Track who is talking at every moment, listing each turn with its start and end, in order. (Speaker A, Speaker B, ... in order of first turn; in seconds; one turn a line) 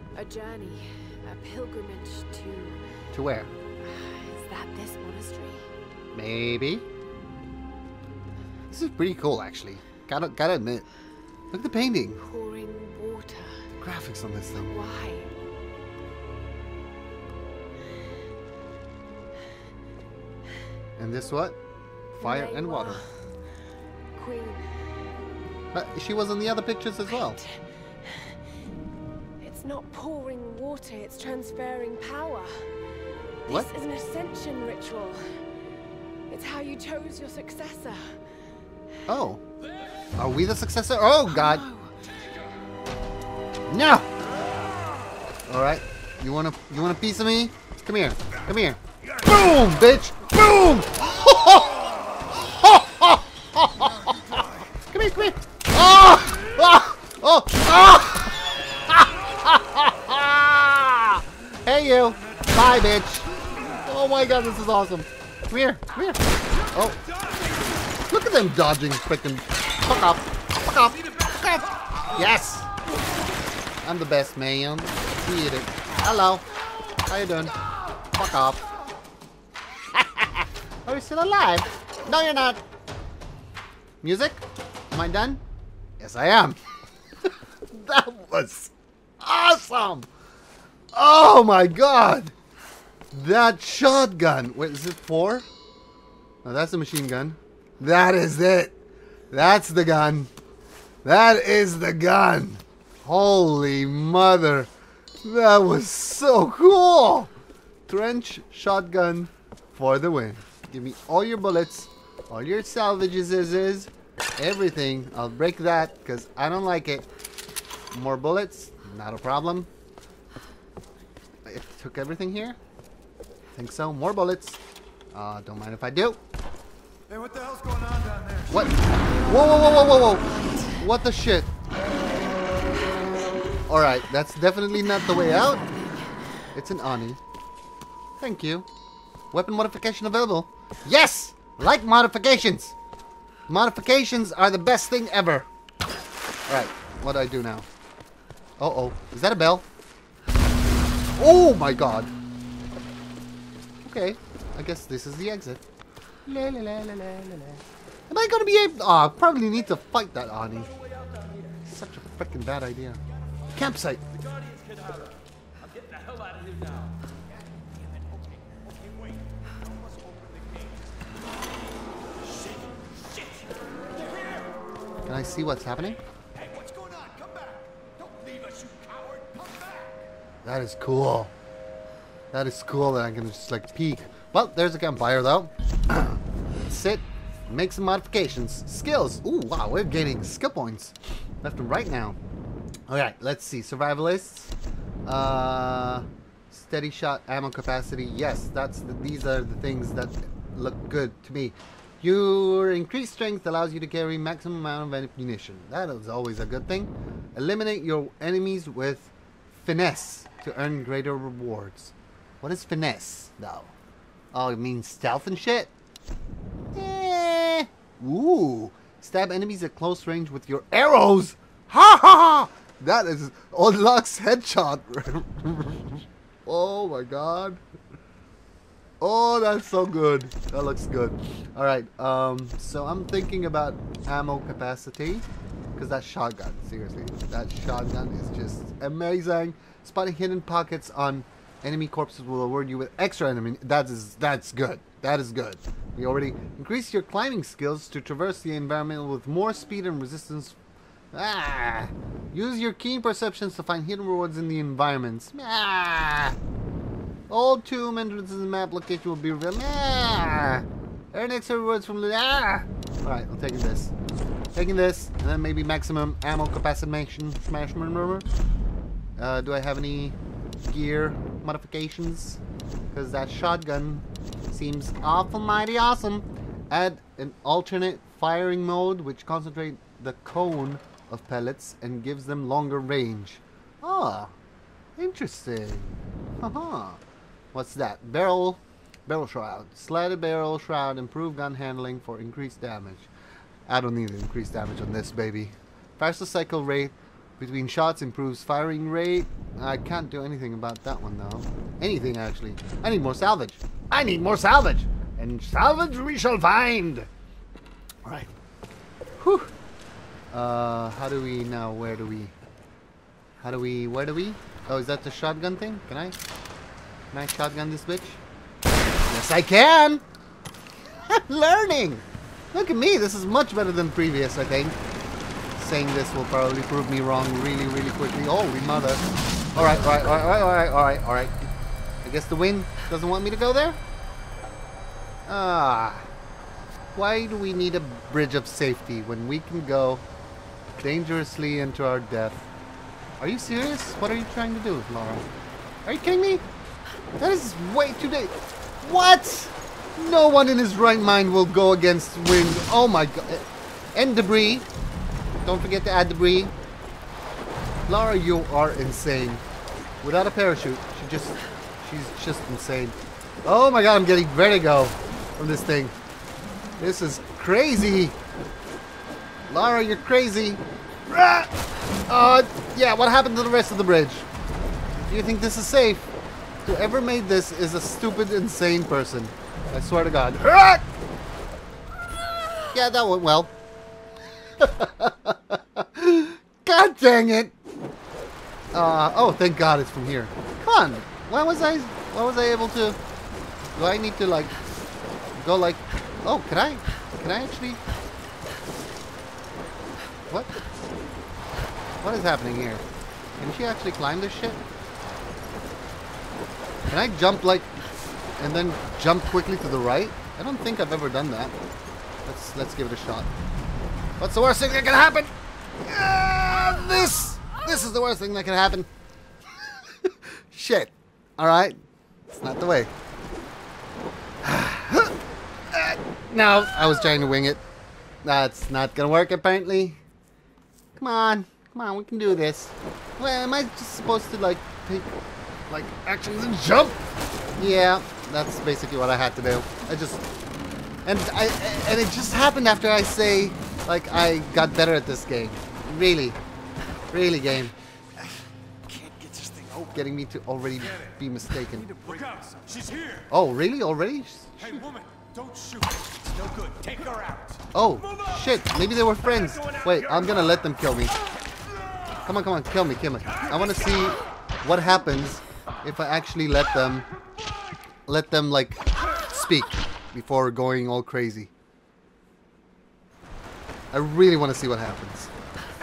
Speaker A: 0.1-2.8
Speaker B: 3.1-3.5
Speaker A: 3.8-5.7
Speaker B: 6.1-6.8
Speaker B: 8.7-10.9
Speaker B: 11.5-12.2
Speaker A: 12.2-13.5
Speaker B: 13.8-14.8
Speaker A: 14.6-15.3
Speaker B: 21.0-21.6
Speaker B: 22.1-23.0
Speaker A: 22.2-23.1
Speaker A: 24.1-24.6
Speaker B: 25.7-27.4
Speaker A: 27.1-27.6
Speaker A: 29.4-32.6
Speaker A: 33.5-35.2
Speaker A: 36.3-38.2
Speaker B: 39.1-39.4
Speaker B: 40.2-41.6
Speaker A: 41.3-42.0
Speaker B: 43.7-44.1
Speaker B: 45.5-67.1
Speaker B: 67.9-72.7
Speaker B: 73.8-76.5
Speaker B: 77.1-77.5
Speaker B: 78.1-78.6
Speaker B: 79.9-82.6
Speaker B: 84.0-85.4
Speaker B: 86.0-86.6
Speaker B: 87.7-90.1
Speaker B: 90.9-92.3
Speaker B: 93.1-95.5
Speaker B: 96.5-98.7
Speaker B: 99.3-100.3
Speaker B: 101.0-104.7
Speaker B: 105.2-107.3
Speaker B: 107.9-117.1
Speaker B: 117.9-119.7
Speaker B: 121.5-122.6
Speaker B: 123.5-124.6
Speaker B: 125.1-126.2
Speaker C: 127.1-128.5
Speaker B: 128.5-131.5
Speaker A: 129.0-130.8
Speaker B: 133.7-135.7
Speaker B: 136.6-137.2
Speaker B: 138.2-138.7
Speaker B: 139.3-142.8
Speaker B: 143.5-145.5
Speaker B: 146.5-147.7
Speaker B: 148.6-149.7
Speaker B: 151.2-152.1
Speaker B: 153.8-155.6
Speaker B: 156.3-160.7
Speaker B: 161.7-163.0
Speaker B: 163.5-164.0
Speaker C: 166.0-166.8
Speaker C: 169.9-170.6
Speaker B: 175.1-176.0
Speaker C: 176.4-179.9
Speaker B: 180.4-181.3
Speaker B: 182.3-192.2
Speaker B: 192.9-194.5
Speaker B: 195.1-213.8
Speaker B: 214.3-215.7
Speaker B: 216.8-227.6
Speaker B: 229.0-250.6
Speaker B: 251.1-256.4
Speaker B: 257.3-263.9
Speaker B: 264.6-268.3
Speaker B: 269.2-272.4
Speaker B: 272.9-284.4
Speaker B: 285.0-287.0
Speaker B: 287.5-293.1
Speaker B: 293.7-307.1
Speaker B: 308.1-308.3
Speaker B: 309.2-309.5
Speaker B: 310.3-312.4
Speaker B: 313.4-316.2
Speaker B: 317.1-318.2
Speaker B: 319.1-320.0
Speaker B: 321.1-324.8
Speaker B: 325.6-329.0
Speaker B: 329.6-331.5
Speaker B: 332.0-333.8
Speaker B: 335.3-336.1
Speaker B: 336.9-340.0
Speaker B: 340.8-342.5
Speaker B: 343.2-345.2
Speaker B: 345.9-346.4
Speaker B: 347.2-354.7
Speaker B: 355.4-356.5
Speaker B: 357.9-359.4
Speaker B: 360.0-365.9
Speaker B: 366.8-368.2
Speaker B: 369.5-371.5
Speaker B: 372.1-374.3
Speaker B: 375.1-376.1
Speaker B: 376.6-380.8
Speaker B: 382.7-383.5
Speaker B: 384.6-387.5
Speaker B: 388.7-393.0
Speaker B: 393.8-394.6
Speaker B: 395.4-397.8
Speaker B: 400.3-400.6
Speaker B: 402.0-402.8
Speaker B: 403.4-404.6
Speaker B: 406.9-407.7
Speaker B: 408.4-411.6
Speaker B: 412.2-413.3
Speaker B: 414.2-418.9
Speaker B: 420.1-421.8
Speaker B: 422.3-422.9
Speaker B: 424.4-425.1
Speaker B: 425.7-427.6
Speaker B: 428.2-430.0
Speaker B: 431.0-435.1
Speaker B: 435.7-437.0
Speaker B: 437.6-440.2
Speaker B: 441.1-446.4
Speaker B: 447.1-447.8
Speaker C: 448.9-449.9
Speaker B: 449.9-452.2
Speaker C: 452.2-453.2
Speaker B: 453.3-454.9
Speaker C: 454.9-457.6
Speaker B: 457.7-461.1
Speaker B: 462.2-467.1
Speaker B: 468.1-471.5
Speaker B: 473.9-475.3